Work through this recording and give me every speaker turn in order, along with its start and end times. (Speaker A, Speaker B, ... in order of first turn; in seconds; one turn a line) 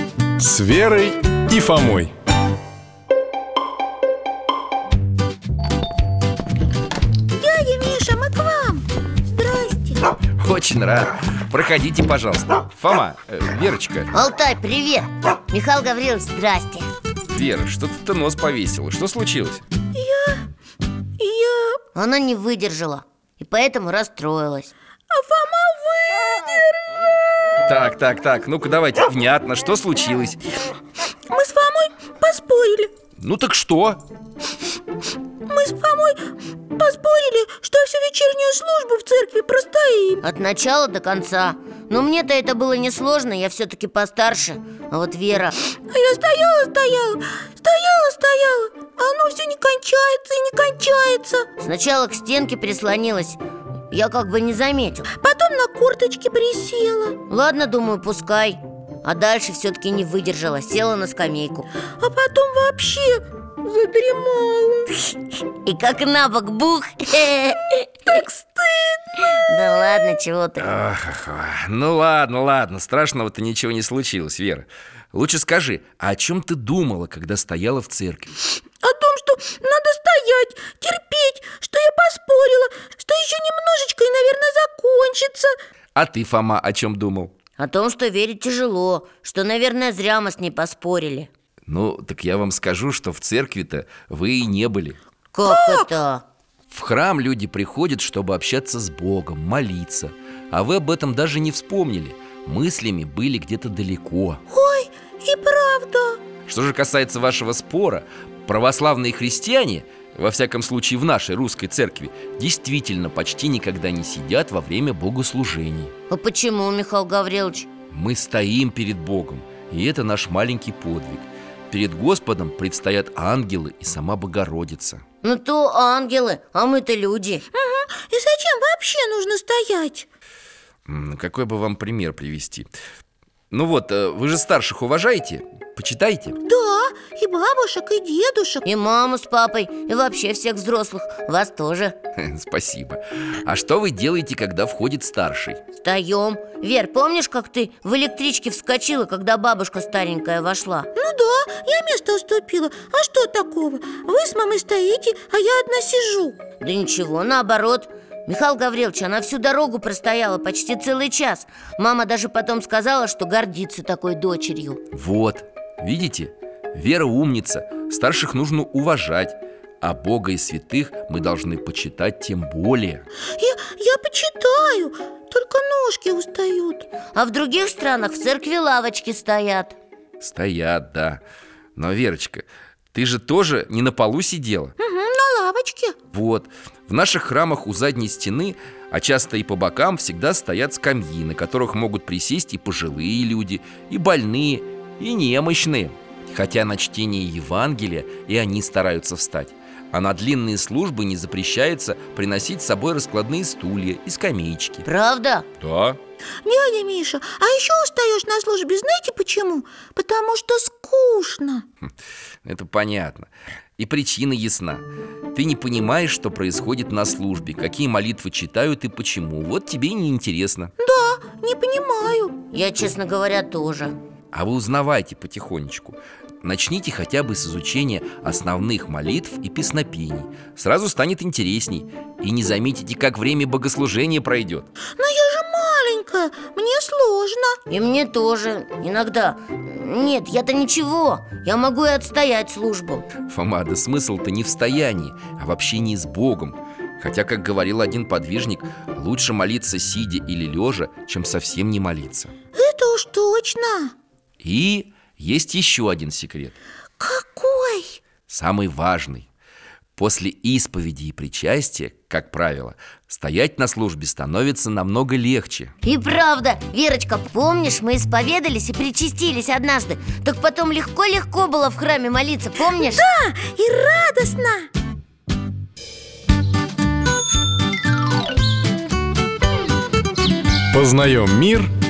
Speaker A: 0.4-2.1
Speaker B: 7.4-10.1
Speaker C: 10.4-14.1
Speaker D: 14.1-16.9
Speaker C: 17.3-19.6
Speaker B: 19.9-20.5
Speaker B: 21.2-21.8
Speaker D: 21.9-24.7
Speaker B: 25.1-27.0
Speaker C: 27.7-30.4
Speaker B: 31.3-32.9
Speaker C: 33.2-34.0
Speaker B: 35.5-40.2
Speaker D: 40.2-45.6
Speaker B: 45.9-51.5
Speaker D: 51.6-53.4
Speaker D: 53.9-55.1
Speaker B: 55.2-57.2
Speaker D: 57.3-61.7
Speaker B: 62.0-65.2
Speaker D: 65.6-68.2
Speaker B: 68.1-69.3
Speaker D: 69.3-70.7
Speaker C: 70.6-78.3
Speaker B: 78.8-85.5
Speaker C: 86.0-87.3
Speaker D: 87.6-91.3
Speaker C: 91.7-95.0
Speaker D: 95.3-96.2
Speaker B: 95.5-95.9
Speaker C: 96.7-104.4
Speaker B: 104.5-106.2
Speaker C: 106.5-115.9
Speaker D: 116.1-117.7
Speaker C: 117.9-125.0
Speaker D: 125.2-127.4
Speaker B: 127.5-130.1
Speaker C: 130.9-132.7
Speaker C: 133.5-136.4
Speaker B: 136.4-138.7
Speaker D: 138.7-141.9
Speaker C: 142.2-145.6
Speaker D: 145.8-150.9
Speaker B: 150.9-156.4
Speaker D: 156.6-164.8
Speaker C: 164.9-173.1
Speaker B: 173.4-176.9
Speaker D: 177.1-179.8
Speaker C: 180.2-181.2
Speaker C: 181.8-184.7
Speaker B: 184.8-186.0
Speaker C: 186.1-204.9
Speaker D: 204.8-205.5
Speaker C: 205.6-206.0
Speaker B: 206.4-211.7
Speaker C: 212.4-220.7
Speaker B: 220.8-222.4
Speaker D: 222.5-223.9
Speaker C: 224.3-234.7
Speaker B: 235.0-237.6
Speaker D: 237.7-243.1
Speaker C: 243.2-252.3
Speaker B: 252.6-253.9
Speaker C: 254.4-256.6
Speaker B: 257.0-258.0
Speaker C: 258.3-259.3
Speaker C: 260.0-265.7
Speaker D: 265.8-273.1
Speaker B: 272.8-274.7
Speaker A: 280.7-281.7